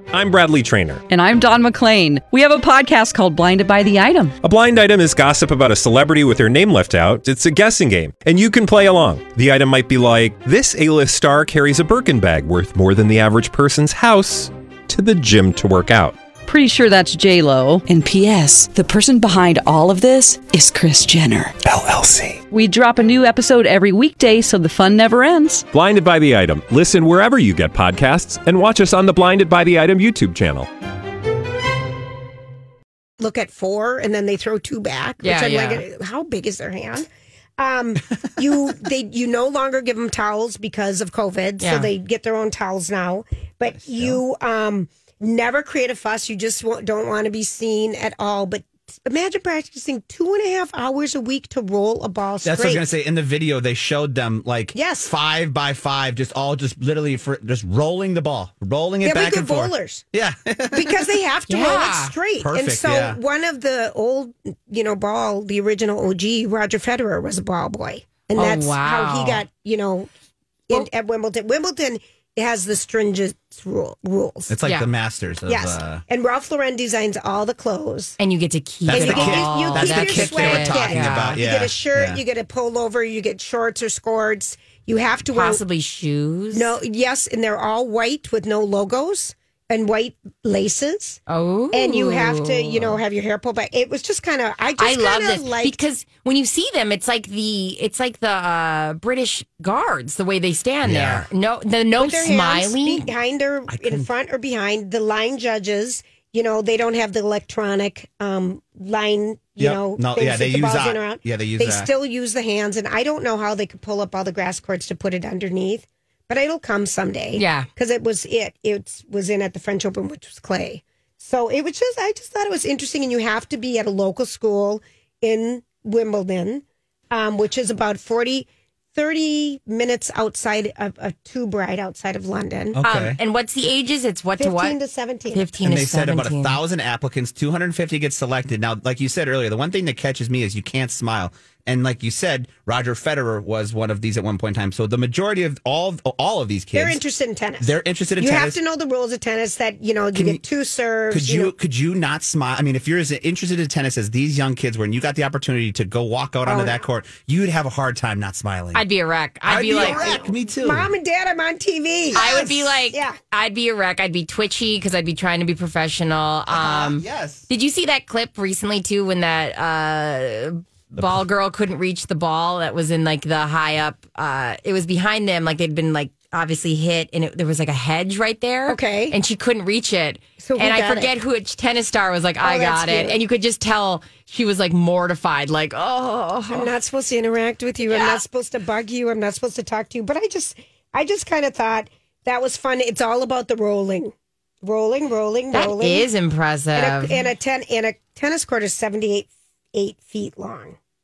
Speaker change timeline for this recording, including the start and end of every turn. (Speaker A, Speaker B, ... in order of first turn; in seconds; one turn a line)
Speaker A: 0.1-1.0
Speaker B: 1.1-4.3
Speaker A: 4.4-16.1
Speaker B: 16.4-21.6
Speaker A: 21.6-22.4
Speaker B: 22.5-25.6
Speaker A: 25.7-30.7
Speaker C: 33.2-37.1
Speaker D: 35.2-35.8
Speaker C: 37.6-52.8
Speaker D: 41.6-41.9
Speaker E: 43.7-44.2
Speaker E: 52.4-61.1
Speaker C: 54.7-55.1
Speaker C: 59.0-60.0
Speaker C: 60.7-70.1
Speaker D: 61.5-62.1
Speaker E: 62.4-63.2
Speaker D: 68.4-69.4
Speaker C: 70.7-74.5
Speaker E: 74.5-76.0
Speaker D: 74.6-74.9
Speaker C: 75.5-78.2
Speaker D: 78.2-81.4
Speaker E: 78.9-82.2
Speaker C: 78.9-85.6
Speaker D: 85.3-86.7
Speaker C: 86.5-91.2
Speaker D: 91.3-93.0
Speaker C: 91.7-95.8
Speaker D: 94.8-103.0
Speaker E: 100.8-101.2
Speaker C: 102.0-132.8
Speaker E: 103.7-104.1
Speaker E: 109.6-111.9
Speaker D: 117.3-117.7
Speaker E: 132.8-133.2
Speaker D: 132.8-134.8
Speaker C: 134.4-135.4
Speaker D: 135.3-136.6
Speaker E: 135.6-147.0
Speaker C: 146.7-151.5
Speaker E: 147.6-148.6
Speaker E: 150.1-150.4
Speaker E: 151.1-158.8
Speaker C: 156.4-156.8
Speaker D: 158.7-160.0
Speaker E: 159.4-160.9
Speaker C: 159.5-163.2
Speaker E: 162.1-162.7
Speaker D: 162.1-186.7
Speaker E: 166.5-167.4
Speaker C: 178.7-179.2
Speaker C: 180.4-181.1
Speaker C: 182.4-183.2
Speaker C: 186.5-196.1
Speaker D: 187.9-188.2
Speaker D: 195.5-197.1
Speaker C: 196.7-200.8